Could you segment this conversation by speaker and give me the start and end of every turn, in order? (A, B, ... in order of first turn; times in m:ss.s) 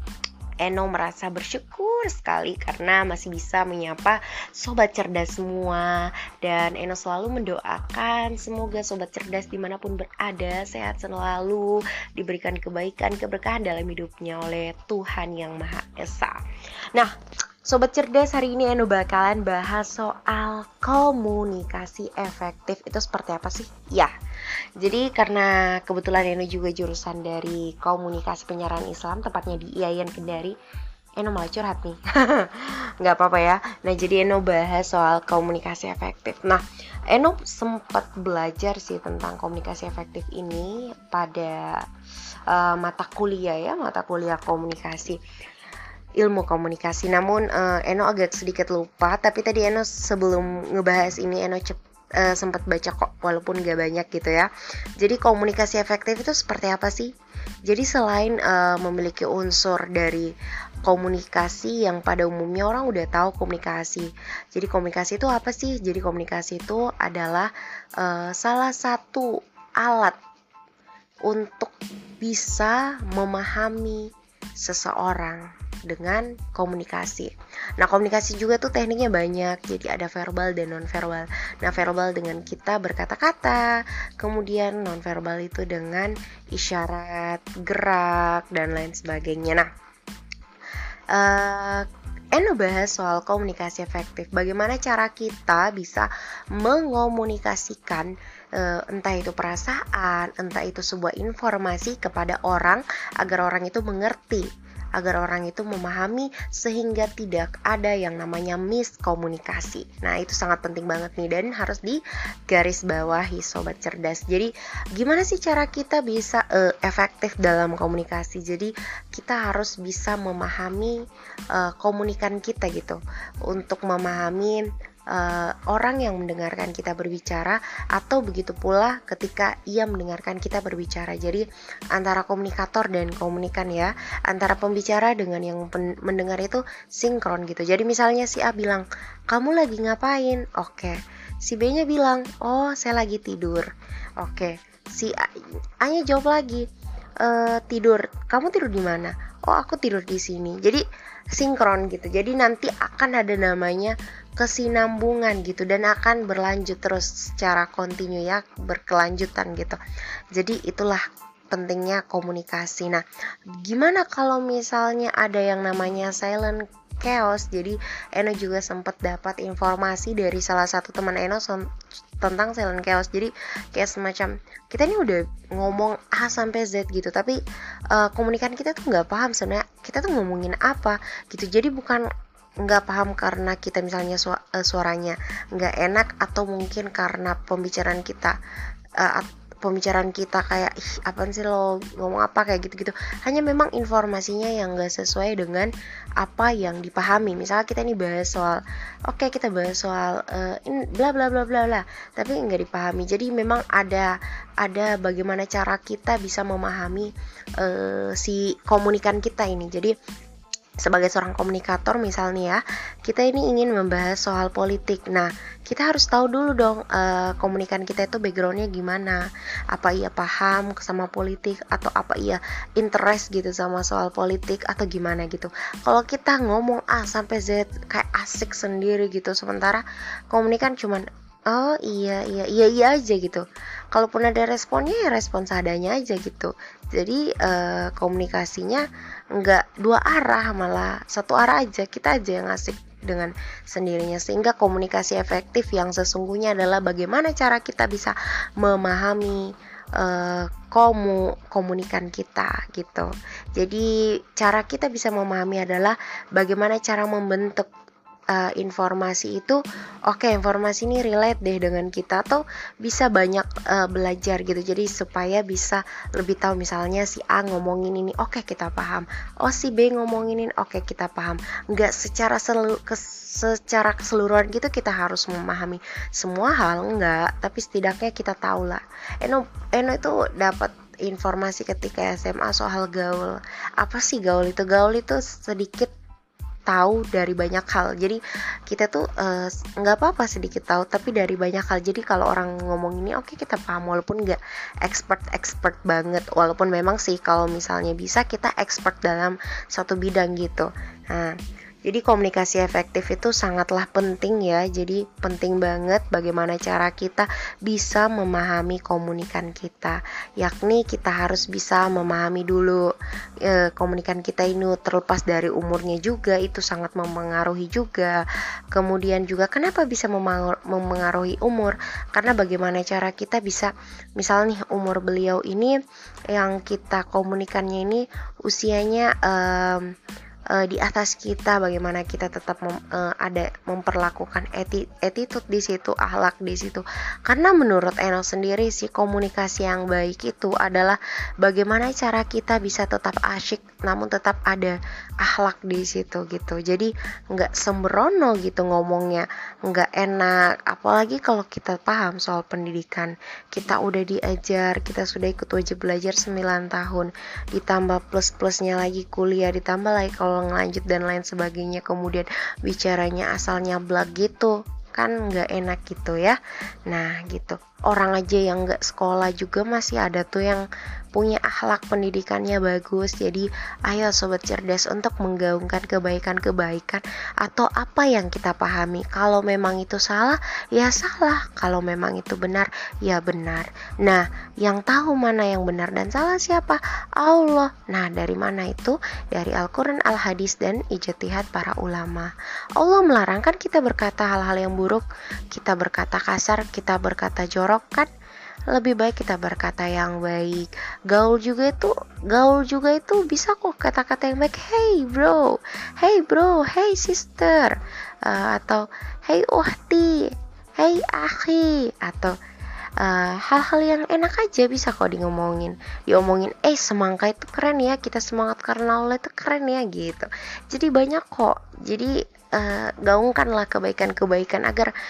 0:00.6-0:16.4 A
0:17.7-0:24.1 A
0:24.8-0:30.6 A
0:31.2-0:41.8 A
0:42.5-0:45.2 A
0:46.2-0:57.1 A
0:57.7-1:00.3 A
1:00.8-1:10.2 A
1:11.3-1:29.7 A
1:31.1-2:01.0 A
2:01.5-2:26.6 A
2:27.2-2:39.8 A
2:40.3-2:43.0 A
2:43.6-2:51.7 A
2:52.2-2:57.4 A
2:57.9-3:02.0 A
3:02.6-3:08.4 A
3:09.0-3:29.9 A
3:30.8-4:17.7 A
4:18.3-4:45.9 A
4:46.7-5:12.9 A
5:13.4-5:18.2 A
5:18.7-5:25.8 A
5:26.3-5:29.9 A
5:30.5-6:38.1 A
6:38.7-6:52.4 A
6:53.0-7:04.9 A